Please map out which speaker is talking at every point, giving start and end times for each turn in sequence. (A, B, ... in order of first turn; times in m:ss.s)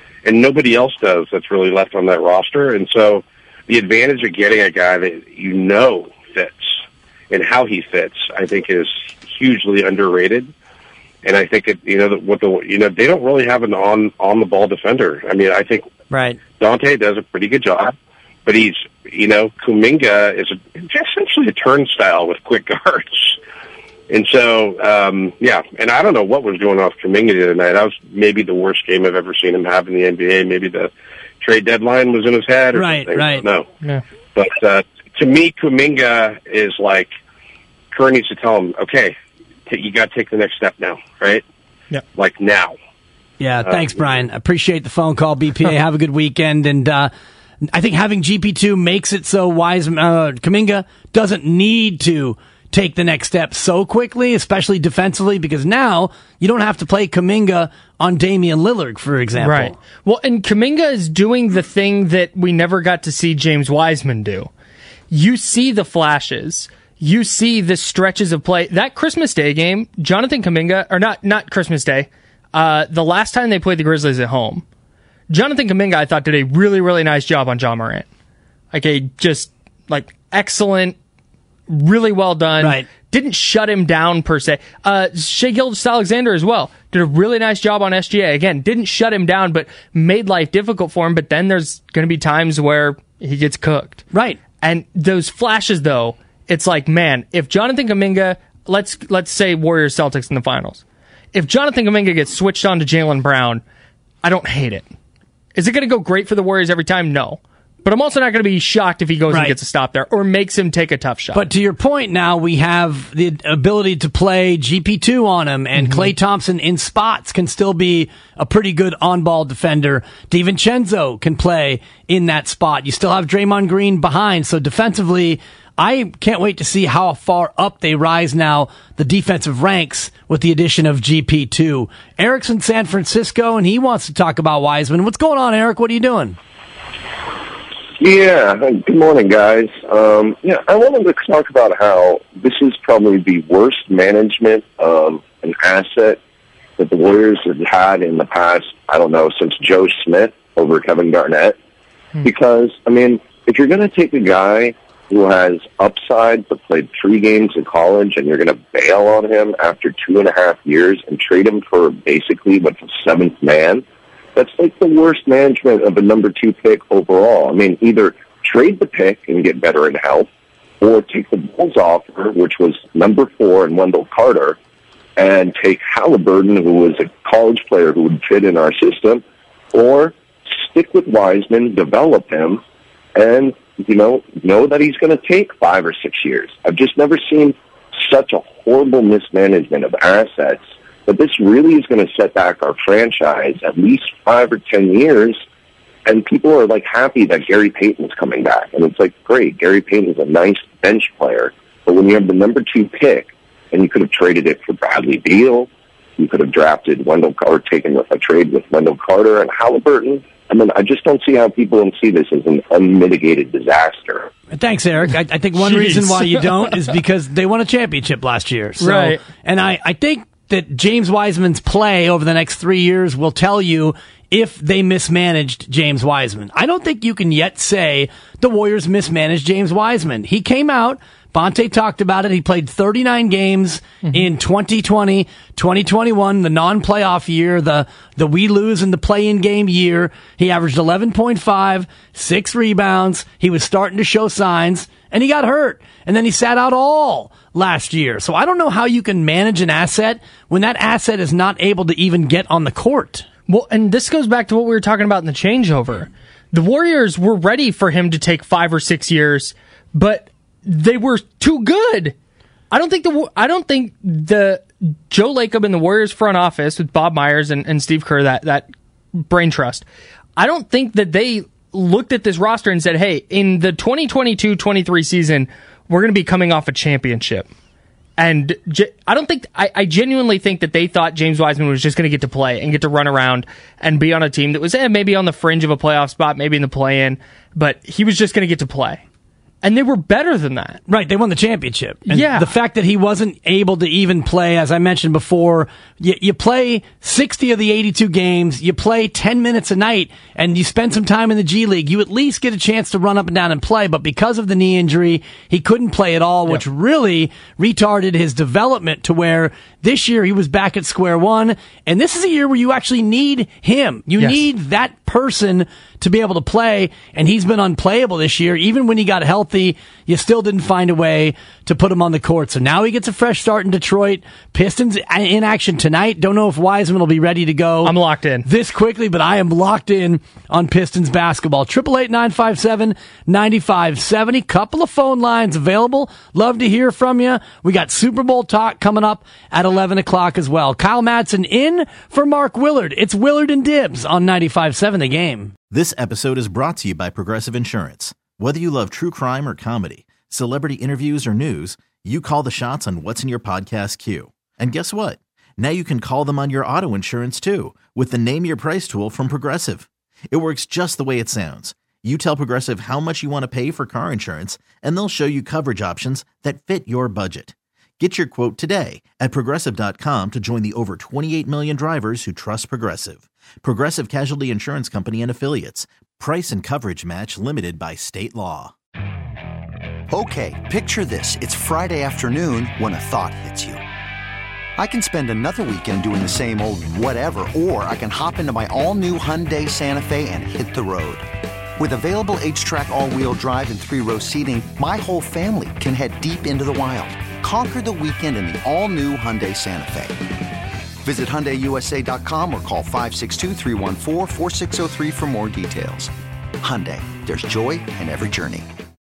0:00.2-0:06.7 A
0:07.3-0:10.5 A
0:11.2-0:15.9 A
0:16.1-0:16.4 B
0:16.6-0:17.9 A
0:18.5-0:23.4 A
0:24.1-0:33.7 A
0:32.7-0:33.4 B
0:34.4-0:37.1 A
0:37.9-0:39.2 A
0:39.7-0:41.4 A
0:42.2-0:42.7 A
0:43.4-0:47.1 B
0:43.6-0:43.9 A
0:47.6-0:59.8 B
0:59.4-1:04.5 C
1:05.1-1:14.6 C
1:15.3-1:18.1 C
1:18.7-1:21.0 C
1:21.7-1:34.0 C
1:22.6-1:22.9 B
1:34.1-1:34.4 B
1:34.6-1:40.8 C
1:41.3-1:43.6 C
1:44.2-1:44.9 C
1:45.6-1:51.4 C
1:49.3-1:49.6 B
1:51.3-2:16.4 B
1:55.8-1:56.1 C
2:18.0-2:26.2 D
2:26.8-2:31.6 D
2:32.2-2:43.8 D
2:44.4-2:50.3 D
2:50.8-2:54.6 D
2:55.2-3:02.6 D
3:03.2-3:15.4 D
3:16.1-3:34.3 D
3:34.5-4:13.3 B
3:35.6-3:36.8 C
3:38.8-3:39.2 C
4:13.5-4:22.2 C
4:22.7-4:29.8 C
4:30.4-4:37.5 C
4:38.2-4:49.0 C
4:49.6-4:50.8 C
4:50.9-5:45.5 B
4:52.1-4:52.5 C
5:27.8-5:28.5 C
5:45.7-6:18.7 E
6:20.1-6:23.8 F
6:24.8-6:31.3 F
6:31.8-6:40.2 F
6:41.0-6:48.7 F